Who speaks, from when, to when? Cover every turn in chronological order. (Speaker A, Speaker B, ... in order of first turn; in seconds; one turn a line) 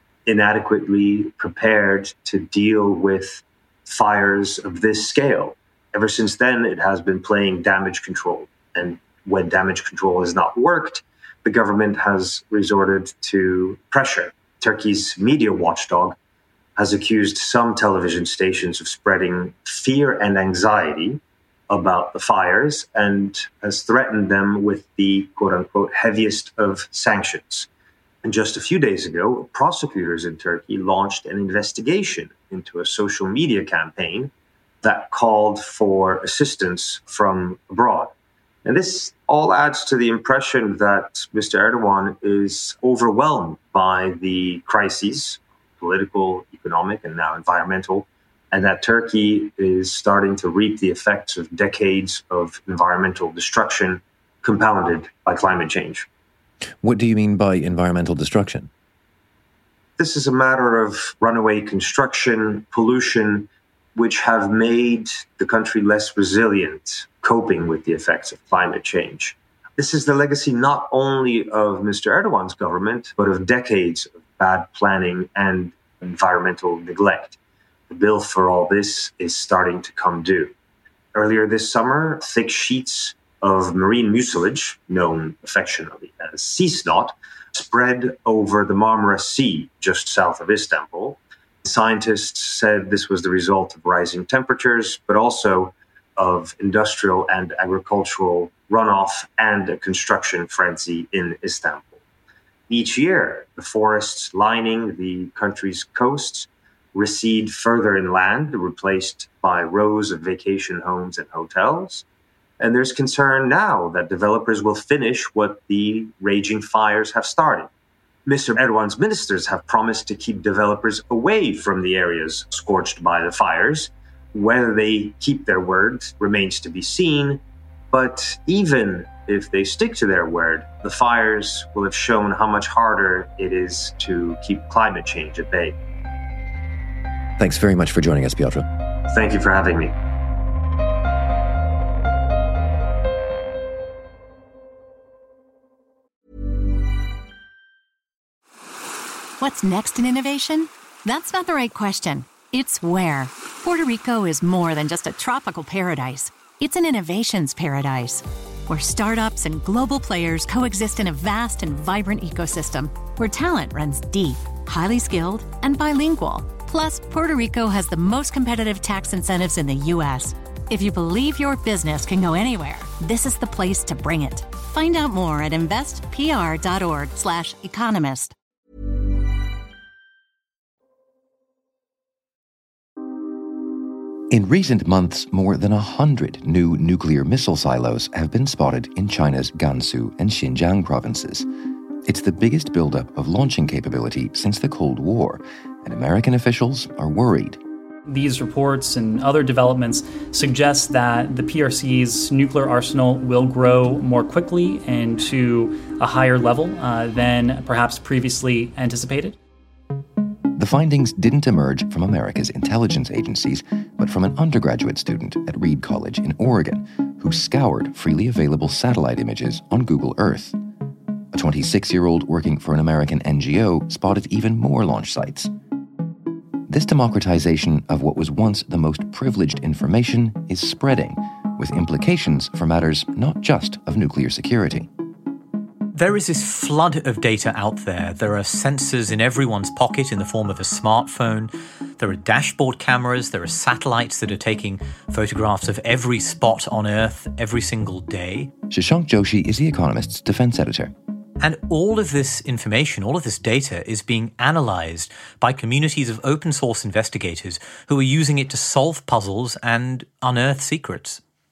Speaker A: 0.2-16.1
Speaker A: 16.8-27.7
Speaker A: 28.2-34.3
Speaker A: 34.8-38.1
Speaker A: 38.6-56.1
Speaker B: 56.8-58.7
Speaker A: 60.0-77.4
Speaker A: 77.9-80.5
Speaker A: 81.1-102.0
Speaker A: 102.7-112.0
Speaker A: 112.6-117.7
Speaker A: 118.2-135.8
Speaker B: 137.4-138.7
Speaker A: 139.1-139.9
Speaker C: 149.4-178.3
Speaker B: 184.3-191.5
Speaker B: 192.0-197.6
Speaker D: 198.1-209.4
Speaker B: 210.5-220.6
Speaker B: 221.3-225.5
Speaker B: 226.7-234.9
Speaker E: 235.9-248.5
Speaker B: 248.7-250.9
Speaker E: 251.4-261.2